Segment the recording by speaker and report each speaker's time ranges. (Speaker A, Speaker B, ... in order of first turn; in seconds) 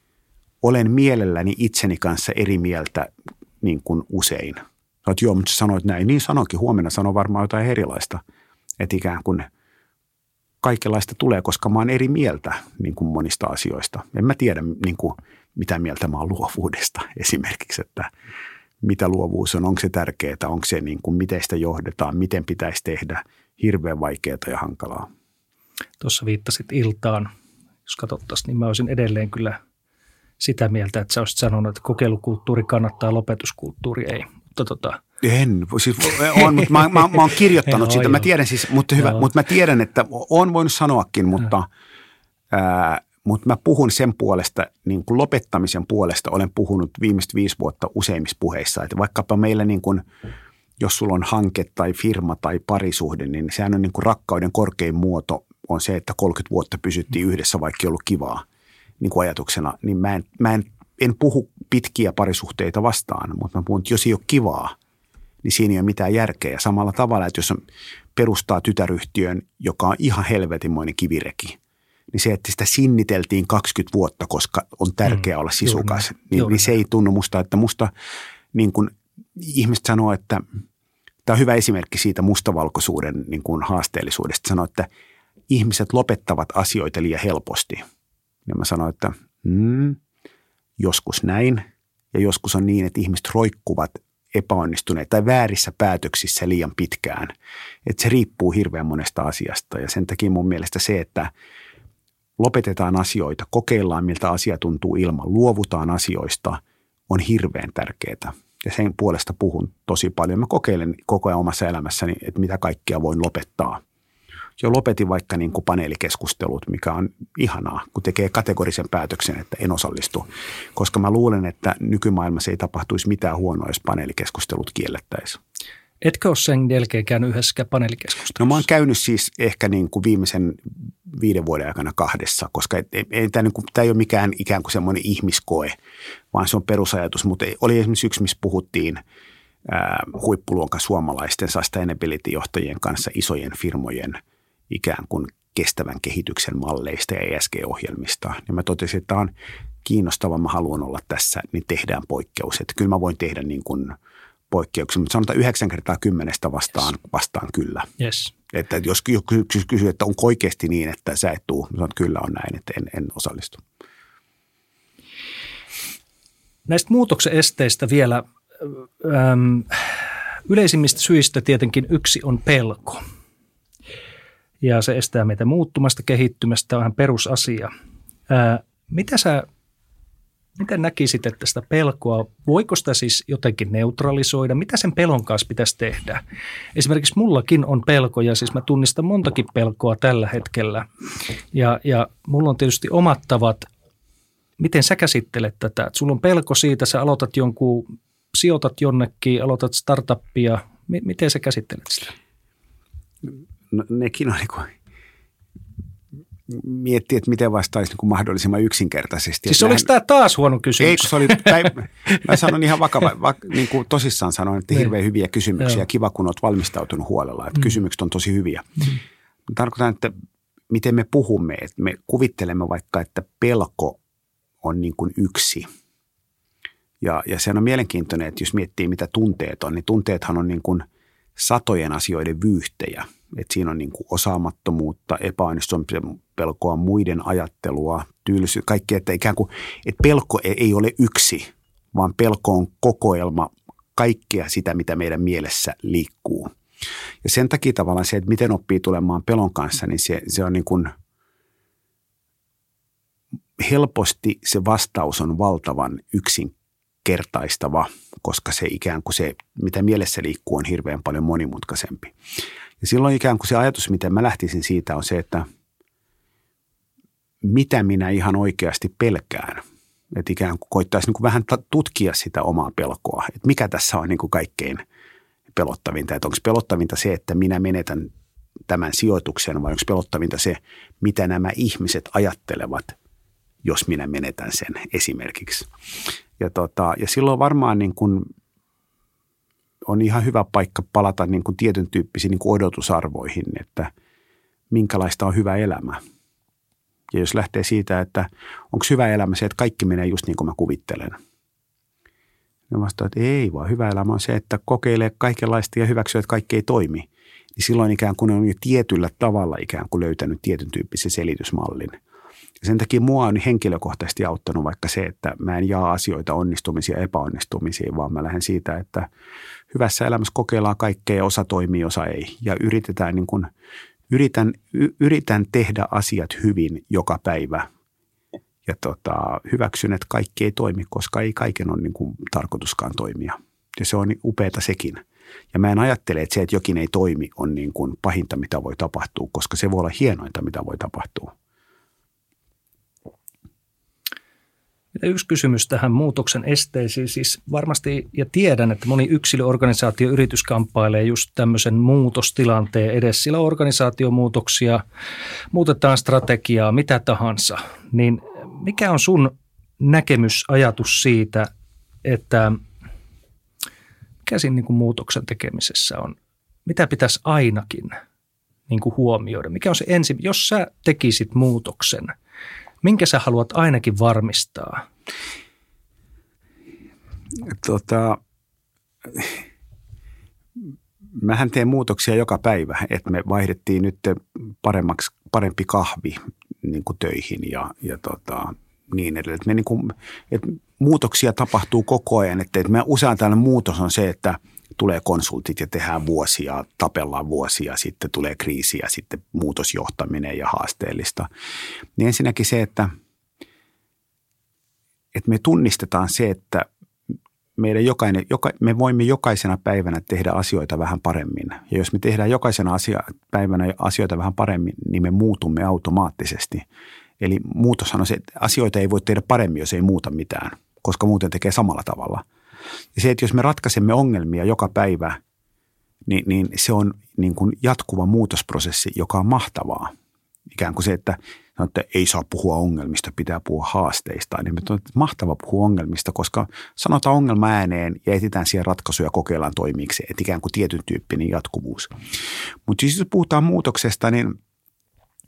Speaker A: 0.6-3.1, 3.6-8.2, 8.8-9.5, 10.6-18.1, 18.8-25.1, 35.2-41.7, 42.5-50.0, 50.8-58.4, 59.0-64.8, 65.4-67.6, 68.1-71.6, 72.1-77.9, 78.5-80.5, 81.2-84.9, 85.5-87.8, 88.5-90.0, 90.8-97.3, 97.8-101.3, 102.4-113.8, 114.6-125.4, 128.3-135.8, 136.3-139.0, 139.6-144.2, 144.7-149.3, 149.8-153.9, 154.5-157.9, 158.5-163.6, 203.3-204.7, 206.5-209.9, 210.8-218.9, 219.5-220.1, 220.7-224.0, 224.6-225.7, 227.0-246.5, 247.2-250.9, 253.6-256.5, 257.0-262.1, 262.8-265.4, 267.4-274.8, 275.5-278.1, 278.7-282.9, 283.6-285.7, 286.4-288.3, 289.9-293.9, 294.7-296.0, 297.1-301.1, 302.7-312.0, 312.6-319.1, 319.7-323.5, 324.1-327.7, 328.6-341.3, 377.4-378.2, 379.1-379.4, 381.1-401.3, 401.9-402.9, 405.1-406.7, 407.6-416.6, 417.2-422.2, 422.9-425.2, 426.1-429.9, 430.5-441.9, 442.6-444.3
Speaker B: 26.0-27.3, 27.9-29.6, 30.4-35.0, 36.3-38.3, 39.0-39.3, 75.6-76.7, 126.0-128.6, 158.0-158.3, 166.7-173.0, 174.6-177.7, 178.3-179.5, 180.6-186.2, 186.7-190.9, 191.5-193.7, 194.6-202.1, 209.5-212.2, 344.9-354.8, 355.5-361.5, 362.0-362.6, 364.2-367.9, 368.7-372.1, 372.8-374.9